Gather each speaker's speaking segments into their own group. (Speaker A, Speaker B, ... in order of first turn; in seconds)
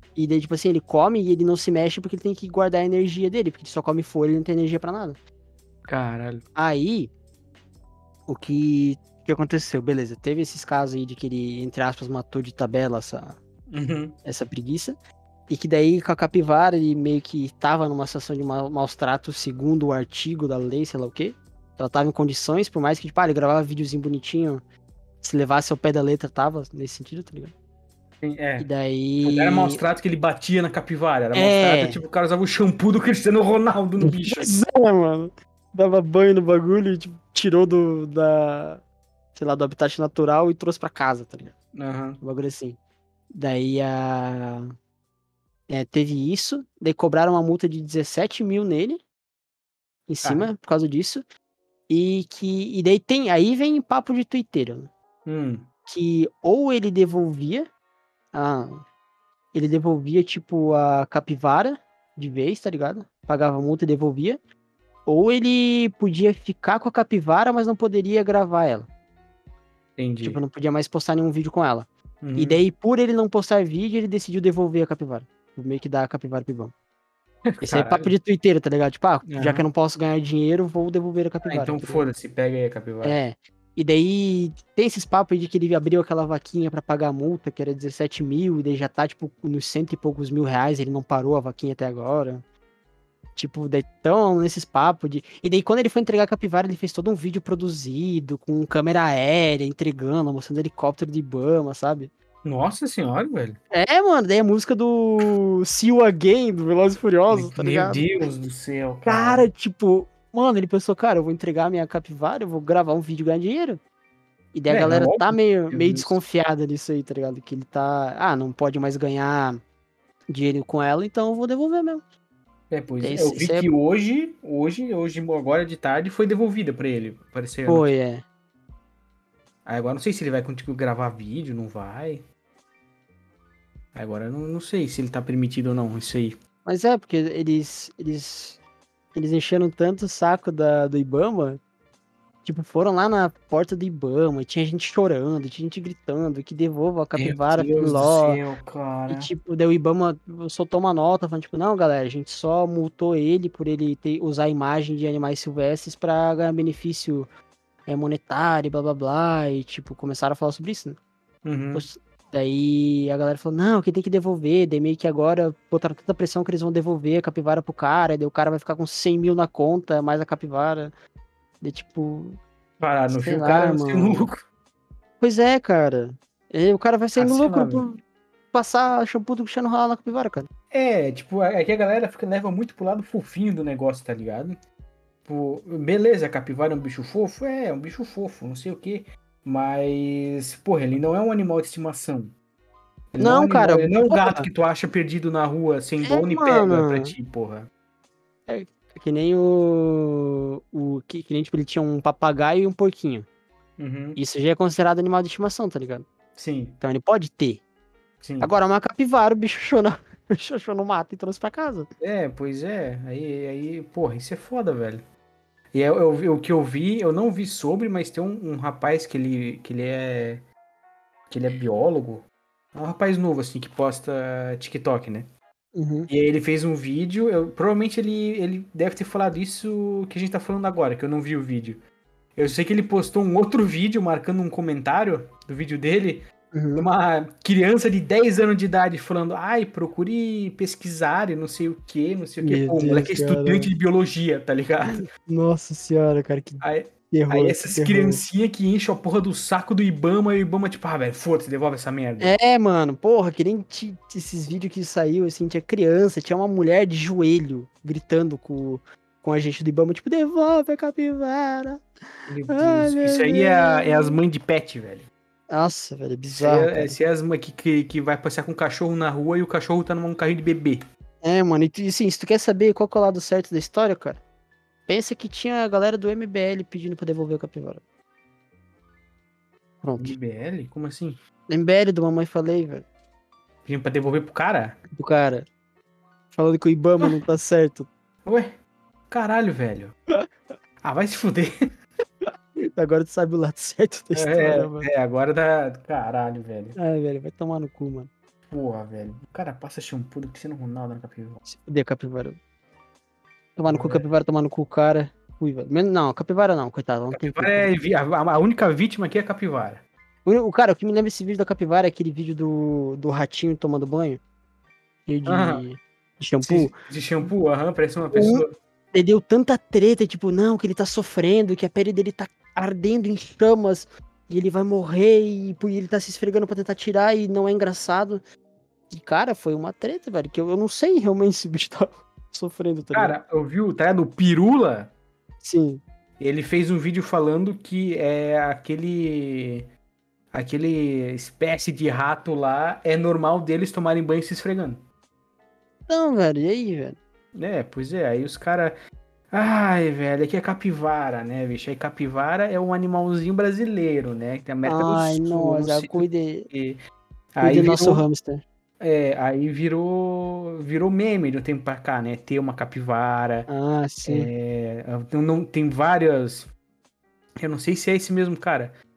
Speaker A: 0.1-5.2, 6.5-7.1, 8.3-13.4, 14.2-15.0, 15.5-24.6, 25.2-27.5, 28.6-29.8, 31.3-32.0, 34.0-38.8, 39.3-41.5, 42.2-42.8, 43.3-44.7, 45.7-49.0, 50.1-51.2, 51.9-54.9, 55.9-57.7, 58.3-58.8, 59.5-64.4, 65.0-68.9, 70.2-76.7, 77.6-82.0, 83.0-92.4, 93.3-102.1, 103.7-108.1, 109.0-113.8, 114.5-119.6, 120.3-122.0, 123.0-123.7, 127.7-128.2, 136.6-138.6, 139.1-141.6, 142.4-148.4, 149.1-157.3, 157.9-161.0, 161.7-170.9, 171.6-172.4, 173.1-174.3, 175.2-178.0, 178.5-180.5, 193.2-194.5, 196.0-197.1, 198.5-203.2, 204.2-206.1, 206.8-207.6, 208.4-211.9, 225.7-226.1, 236.5-236.9, 242.4-243.7, 244.9-248.2, 252.2-261.8, 262.5-264.2, 265.5-266.9, 271.2-274.2, 274.9-277.8, 279.8-280.1, 281.5-282.9, 284.9-285.5, 286.3-287.9, 292.2-294.9, 296.8-298.1, 301.4-302.4, 303.6-307.7, 310.2-314.2, 315.1-316.7, 318.1-328.2, 328.9-333.2, 335.4-335.8, 345.9-347.0, 354.6-356.5, 357.4-358.4, 363.5-364.3
Speaker B: 5.9-6.4, 13.7-14.2, 28.2-28.7, 29.2-34.6, 41.7-42.2, 50.2-50.5, 55.2-55.7, 70.0-70.4, 72.2-72.6, 77.5-78.1, 79.3-79.6, 81.4-83.2, 102.4-103.6, 107.3-109.5, 114.7-116.2, 122.7-127.8, 129.6-132.2, 133.9-136.3, 147.2-149.3, 161.4-161.8, 172.8-174.4, 177.2-177.9, 180.7-184.6, 185.2-192.3, 193.1-197.7, 203.8-204.2, 206.3-206.8, 208.2-208.5, 212.0-215.0, 215.7-220.4, 221.3-225.3, 226.1-231.8, 232.3-236.2, 236.8-245.0, 246.6-252.3, 262.3-265.1, 266.4-270.8, 280.0-281.2, 283.6-284.8, 288.2-288.6, 289.1-289.9, 290.8-291.5, 294.1-296.8, 298.5-301.4, 303.7-304.1, 307.1-309.8, 315.2-315.6, 316.4-318.5, 332.9-334.9, 336.2-339.7, 340.3-344.8, 347.3-348.7, 349.3-356.8, 357.3-358.0, 358.8-363.5, 364.0-366.5, 367.4-368.7